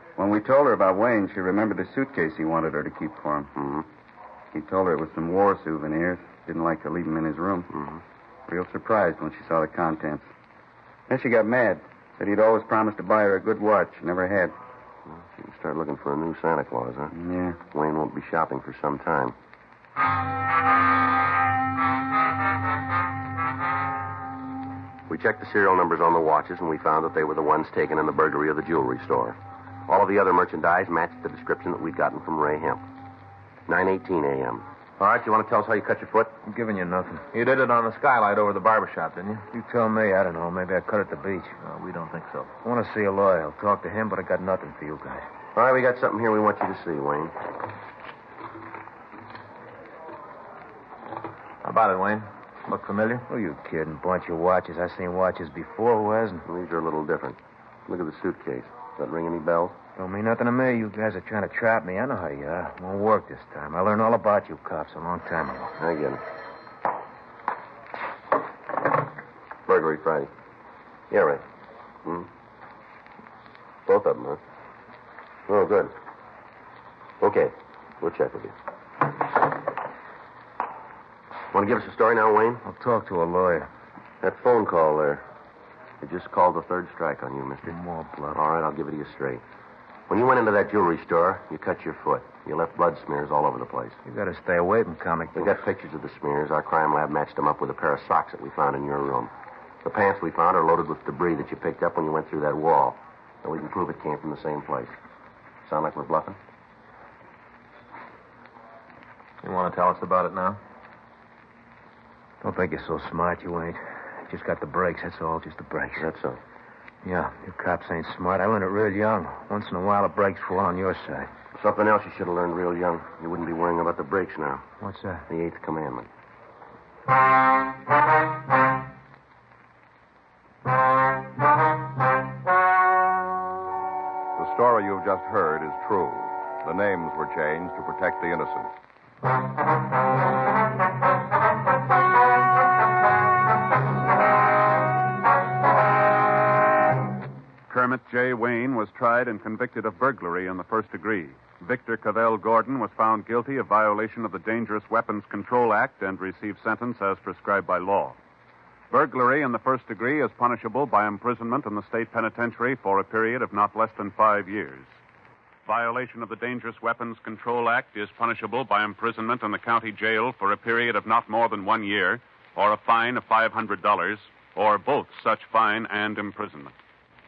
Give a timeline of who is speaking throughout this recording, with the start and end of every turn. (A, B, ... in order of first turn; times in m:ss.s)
0:00.2-0:03.5 A
0:03.6-0:03.9 B
0:04.5-0:07.7 A
0:07.7-0:08.0 B
0:08.5-0:10.3 A
0:11.1-0:14.6 A
0:15.1-0:17.1 B
0:17.1-0:17.6 A
0:17.7-0:19.4 B
0:25.1-0:29.4 B
0:29.9-0:32.8 B
0:33.7-0:36.4 B
0:36.5-0:37.2 C
0:37.3-0:39.4 D
0:39.5-0:41.6 C
0:41.6-0:42.6 D
0:42.6-0:45.3 C
0:45.5-0:47.3 B
0:51.6-0:53.3 D
0:53.3-0:56.4 C
0:56.5-0:59.8 B
1:00.0-1:05.7 C
1:05.8-1:06.2 B
1:09.7-1:10.3 B
1:11.1-1:11.4 B
1:13.9-1:14.4 B
1:15.5-1:15.9 B
1:17.2-1:18.6 B
1:21.5-1:22.6 B
1:22.6-1:23.7 C
1:24.2-1:25.2 B
1:26.0-1:27.8 B
1:27.7-1:28.4 C
1:28.3-1:29.4 B
1:30.1-1:34.0 B
1:34.1-1:35.6 C
1:35.4-1:39.3 B
1:39.8-1:45.0 B
1:45.6-1:46.4 B
1:49.4-1:50.6 D
1:52.4-1:56.1 C
1:56.0-1:56.4 B
1:57.0-2:01.3 C
2:01.6-2:04.7 B
2:04.8-2:05.3 C
2:05.3-2:06.1 B
2:14.4-2:18.7 E
2:27.7-2:38.2 F
2:38.9-2:44.9 F
2:45.7-2:56.7 F